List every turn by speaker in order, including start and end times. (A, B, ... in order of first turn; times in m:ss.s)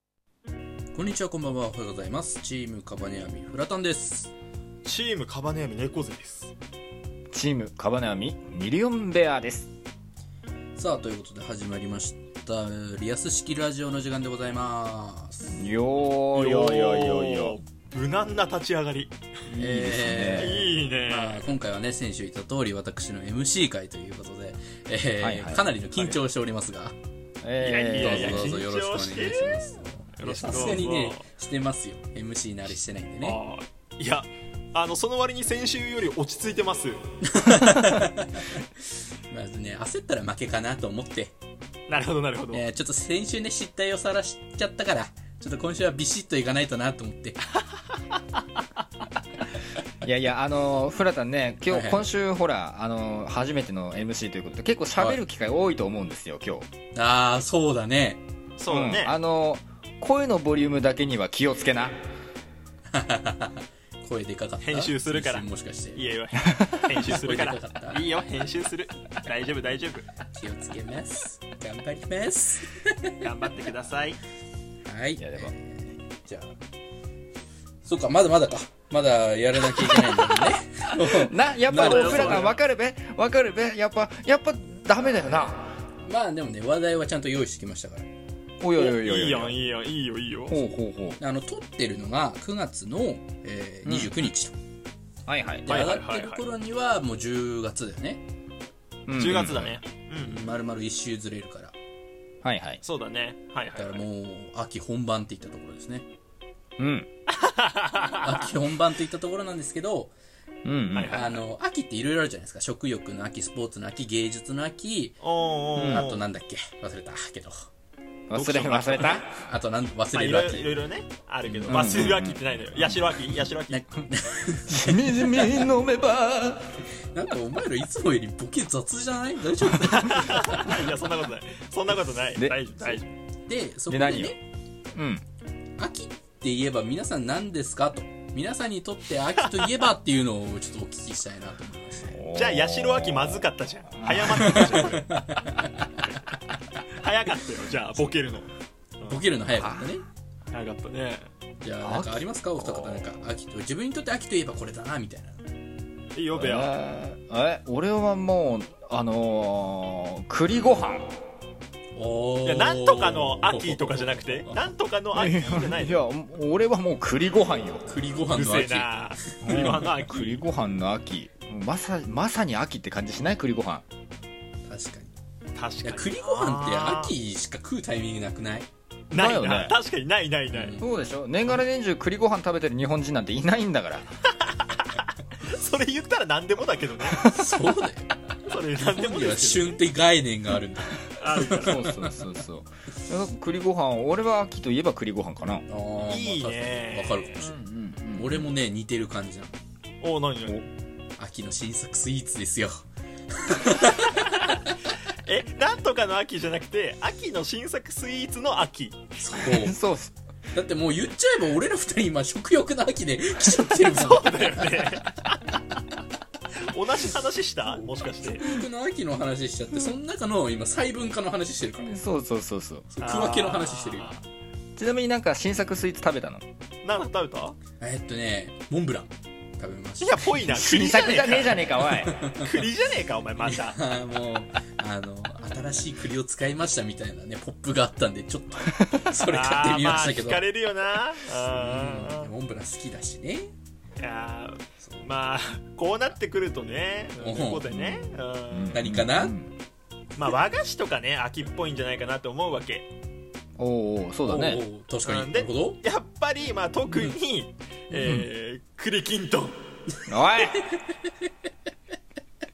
0:00.9-0:04.3 A
0:04.8-0:06.5 B
0:07.3-0:09.7 C
0:10.8-0:15.7 A
0:15.6-0:17.6 C
0:16.3-0:19.1 B
0:19.5-0:27.0 A
0:19.5-0:20.6 C
0:20.4-0:21.4 B
0:25.2-0:25.7 C
0:25.9-0:26.2 B
0:27.4-0:28.5 C
0:27.6-0:31.2 B
0:28.0-0:33.4 A
0:30.3-0:30.8 C
0:33.2-0:37.0 B
0:37.2-0:38.6 A
0:39.3-0:41.4 A
0:41.9-0:42.6 B
0:42.5-0:47.4 A
0:50.0-0:56.7 C
0:51.7-0:52.1 A
0:56.9-0:58.2 A
0:58.6-0:59.2 B
0:58.7-1:02.0 C
1:02.9-1:06.0 A
1:04.6-1:10.1 B
1:06.9-1:08.0 A
1:10.3-1:13.1 A
1:13.2-1:14.2 B
1:14.8-1:16.6 A
1:15.2-1:15.5 C
1:17.8-1:22.5 A
1:19.6-1:25.6 C
1:21.7-1:22.5 B
1:26.0-1:28.1 A
1:28.6-1:29.6 C
1:28.7-1:30.6 B
1:30.5-1:31.2 C
1:31.2-1:34.6 A
1:33.8-1:34.1 C
1:35.3-1:35.7 C
1:35.7-1:38.2 A
1:35.7-1:36.4 B
1:39.1-1:39.6 C
1:39.1-1:40.5 B
1:39.2-1:41.7 A
1:42.4-1:42.8 C
1:42.8-1:44.0 B
1:43.8-1:46.1 A
1:46.8-1:47.1 C
1:47.3-1:48.3 B
1:48.2-1:50.1 A
1:50.6-1:51.3 C
1:50.9-1:51.4 B
1:51.1-1:55.2 A
1:55.2-1:56.2 B
1:55.8-1:56.1 C
1:55.8-1:57.7 A
1:58.3-1:59.3 C
1:58.3-1:59.3 B
1:59.3-2:00.8 A
2:00.1-2:03.8 B
2:01.6-2:02.9 C
2:01.7-2:02.1 A
2:03.7-2:05.7 A
2:04.7-2:06.8 C
2:07.1-2:10.8 A
2:10.1-2:13.1 B
2:12.4-2:13.0 C
2:13.5-2:14.4 A
2:13.9-2:14.4 C
2:15.0-2:15.2 C
2:15.8-2:22.2 A
2:19.5-2:19.8 B
2:22.1-2:23.5 C
2:22.3-2:25.2 B
2:24.0-2:24.3 C
2:24.3-2:26.0 A
2:27.0-2:28.5 B
2:29.0-2:29.3 B
2:29.1-2:30.0 A
2:29.6-2:29.9 C
2:30.5-2:31.3 B
2:31.6-2:35.4 A
2:31.8-2:33.2 C
2:36.1-2:36.8 B
2:36.4-2:41.1 C
2:42.0-2:44.5 A
2:42.4-2:46.0 B
2:45.2-2:47.9 C
2:47.9-2:49.8 A
2:48.3-2:50.4 B
2:49.4-2:53.8 C
2:54.7-2:55.2 A
2:55.6-2:57.1 B
2:55.8-2:58.7 A
2:59.1-3:00.8 B
2:59.1-2:59.8 C
3:00.5-3:00.9 A
3:00.8-3:04.1 C
3:05.4-3:07.2 B
3:07.2-3:08.2 A
3:08.5-3:09.8 B
3:08.8-3:12.2 A
3:11.2-3:11.9 B
3:11.6-3:15.6 C
3:15.7-3:17.6 A
3:16.1-3:17.4 B
3:17.4-3:18.5 C
3:18.2-3:19.5 A
3:20.0-3:20.7 B
3:21.2-3:24.8 A
3:25.3-3:29.1 B
3:29.2-3:29.8 A
3:29.4-3:30.2 C
3:30.5-3:35.0 A
3:33.8-3:35.6 B
3:36.7-3:38.5 B
3:37.7-3:42.0 A
3:41.8-3:42.9 C
3:42.9-3:44.1 A
3:43.0-3:44.2 B
3:44.8-3:46.4 C
3:46.8-3:47.6 B
3:47.8-3:50.2 A
3:50.0-3:51.7 B
3:50.5-3:52.2 C
3:52.0-3:52.6 A
3:52.4-3:53.8 B
3:53.4-4:00.4 A
3:59.3-4:02.3 B
4:01.5-4:03.5 A
4:04.0-4:08.8 B
4:04.8-4:05.1 A
4:07.2-4:07.7 A
4:07.7-4:09.5 C
4:08.7-4:09.4 A
4:10.2-4:12.9 B
4:13.6-4:14.6 C
4:14.2-4:15.8 A
4:15.0-4:19.6 B
4:17.9-4:18.3 C
4:20.1-4:20.6 C